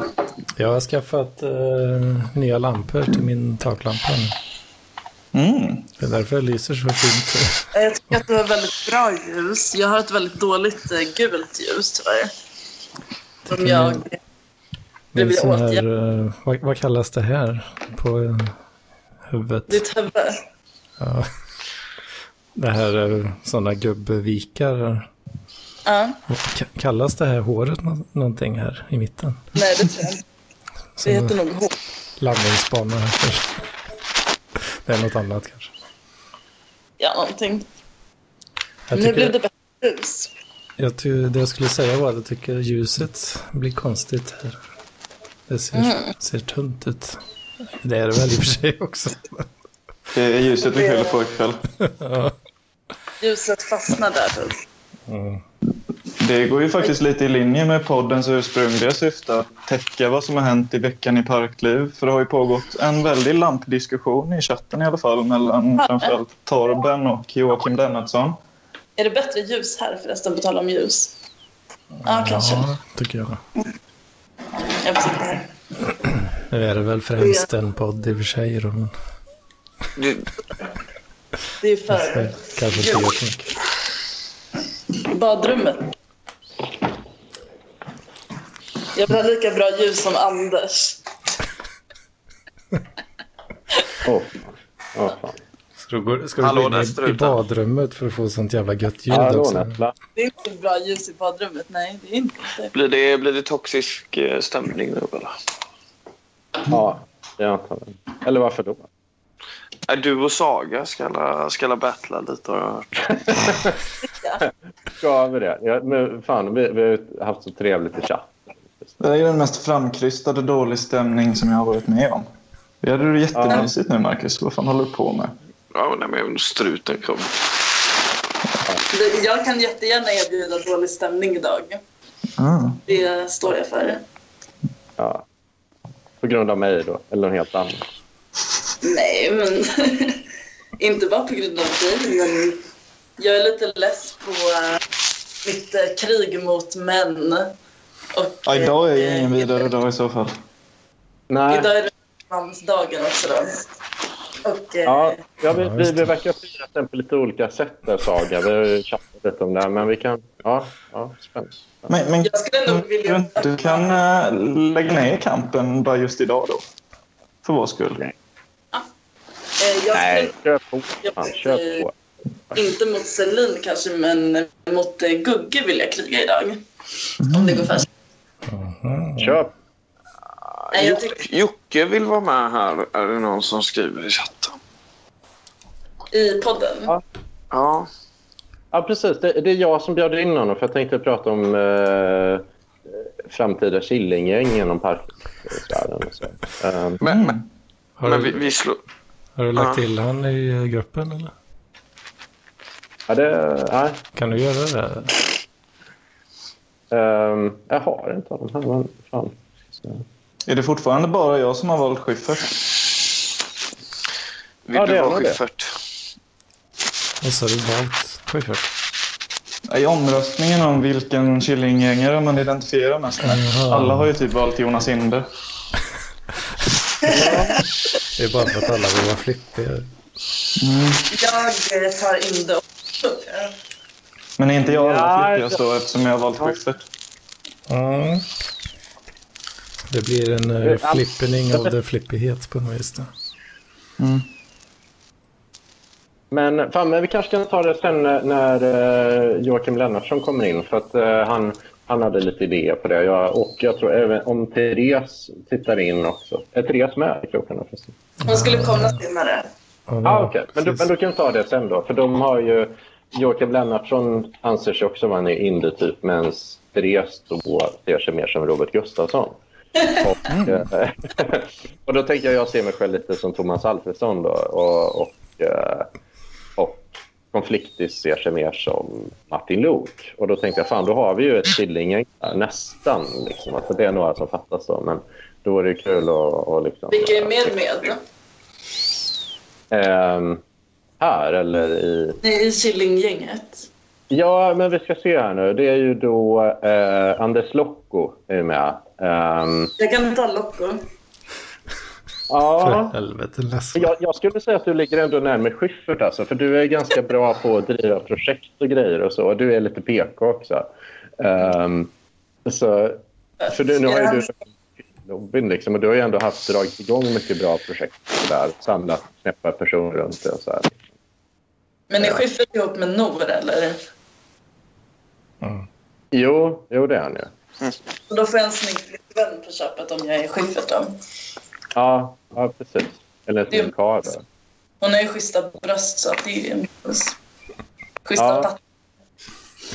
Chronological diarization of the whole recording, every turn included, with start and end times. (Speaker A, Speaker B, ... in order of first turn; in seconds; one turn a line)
Speaker A: 0.6-4.3
Speaker B: 5.3-5.8
Speaker A: 6.0-7.7
Speaker C: 7.7-12.3
Speaker A: 13.5-14.0
Speaker C: 13.5-14.2
Speaker A: 15.1-18.6
Speaker C: 15.2-15.8
Speaker A: 19.3-19.8
Speaker C: 19.7-20.4
Speaker A: 21.0-21.3
Speaker A: 22.6-25.1
Speaker C: 25.9-26.2
Speaker A: 26.3-29.6
Speaker C: 29.6-30.2
Speaker A: 31.0-31.3
Speaker C: 31.0-31.7
Speaker A: 32.2-33.6
Speaker A: 34.8-35.7
Speaker C: 37.0-37.6
Speaker A: 38.9-39.3
Speaker C: 38.9-40.3
Speaker A: 40.8-44.6
Speaker A: 45.5-47.2
Speaker C: 45.7-46.1
Speaker A: 47.8-49.5
Speaker B: 50.1-51.6
Speaker C: 50.7-51.1
Speaker A: 52.0-52.3
Speaker C: 53.2-54.6
Speaker A: 55.1-55.4
Speaker B: 56.2-68.4
Speaker C: 65.8-66.1
Speaker C: 69.0-71.1
Speaker A: 72.0-73.4
Speaker C: 72.0-72.7
Speaker C: 74.8-75.5
Speaker A: 76.5-78.9
Speaker C: 77.2-77.5
Speaker D: 80.0-80.2
Speaker C: 81.6-83.0
Speaker A: 81.9-83.5
Speaker C: 85.0-85.9
Speaker C: 88.9-91.0
Speaker E: 94.0-95.3
Speaker A: 95.8-99.7
Speaker D: 96.4-97.4
Speaker E: 99.1-99.9
Speaker C: 100.2-102.7
Speaker D: 102.7-105.3
Speaker E: 106.7-108.8
Speaker D: 109.9-113.4
Speaker E: 113.3-113.7
Speaker E: 115.0-118.9
Speaker B: 119.0-122.3
Speaker B: 122.8-125.3
Speaker E: 123.3-123.7
Speaker D: 125.7-127.3
Speaker C: 128.9-131.8
Speaker B: 132.4-132.8
Speaker C: 132.9-134.0
Speaker E: 135.0-135.2
Speaker E: 136.2-137.8
Speaker C: 138.8-140.2
Speaker C: 140.8-142.6
Speaker C: 143.2-144.8
Speaker C: 145.4-147.5
Speaker C: 148.1-149.7
Speaker B: 148.4-150.3
Speaker E: 151.3-151.7
Speaker C: 151.5-153.6
Speaker C: 154.4-155.2
Speaker E: 154.8-161.9
Speaker A: 155.5-156.1
Speaker B: 161.9-166.6
Speaker C: 162.2-163.9
Speaker B: 167.4-168.0
Speaker C: 169.6-170.3
Speaker E: 169.9-171.9
Speaker C: 171.0-171.9
Speaker C: 172.5-176.6
Speaker B: 177.2-177.7
Speaker C: 177.3-177.8
Speaker A: 178.5-179.4
Speaker E: 179.2-179.5
Speaker C: 180.7-181.2
Speaker D: 180.8-184.6
Speaker C: 186.1-186.9
Speaker D: 187.5-187.9
Speaker E: 188.7-197.0
Speaker D: 197.0-197.3
Speaker B: 197.1-197.4
Speaker A: 198.0-198.4
Speaker D: 198.0-198.8
Speaker A: 199.4-201.3
Speaker D: 199.5-199.8
Speaker E: 203.1-204.0
Speaker A: 204.2-205.2
Speaker E: 206.9-210.0
Speaker B: 210.4-212.5
Speaker D: 214.7-215.7
Speaker E: 214.7-215.4
Speaker A: 217.2-218.7
Speaker B: 219.7-225.3
Speaker A: 223.3-224.1
Speaker E: 227.1-227.6
Speaker A: 228.2-229.9
Speaker B: 230.6-231.1
Speaker C: 231.1-233.5
Speaker B: 234.4-236.8
Speaker E: 234.6-235.6
Speaker A: 237.7-238.3
Speaker A: 239.9-243.1
Speaker E: 240.6-241.7
Speaker B: 244.0-244.3
Speaker E: 246.3-257.9
Speaker C: 258.2-259.5
Speaker A: 258.2-258.9
Speaker A: 259.9-260.8
Speaker E: 260.0-275.9
Speaker B: 270.3-270.6
Speaker E: 276.6-287.4
Speaker C: 286.9-288.0
Speaker E: 289.7-290.4
Speaker E: 291.0-292.2
Speaker C: 292.2-293.7
Speaker E: 294.1-299.7
Speaker C: 299.8-300.8
Speaker E: 302.3-302.9
Speaker A: 302.6-303.9
Speaker E: 303.7-310.7
Speaker E: 311.2-311.9
Speaker E: 312.4-314.3
Speaker C: 313.4-314.3
Speaker E: 315.0-320.8
Speaker C: 321.9-323.8
Speaker E: 326.1-327.3
Speaker C: 328.1-330.9
Speaker E: 331.7-334.2
Speaker C: 334.8-337.1
Speaker C: 338.1-338.6
Speaker E: 338.2-338.5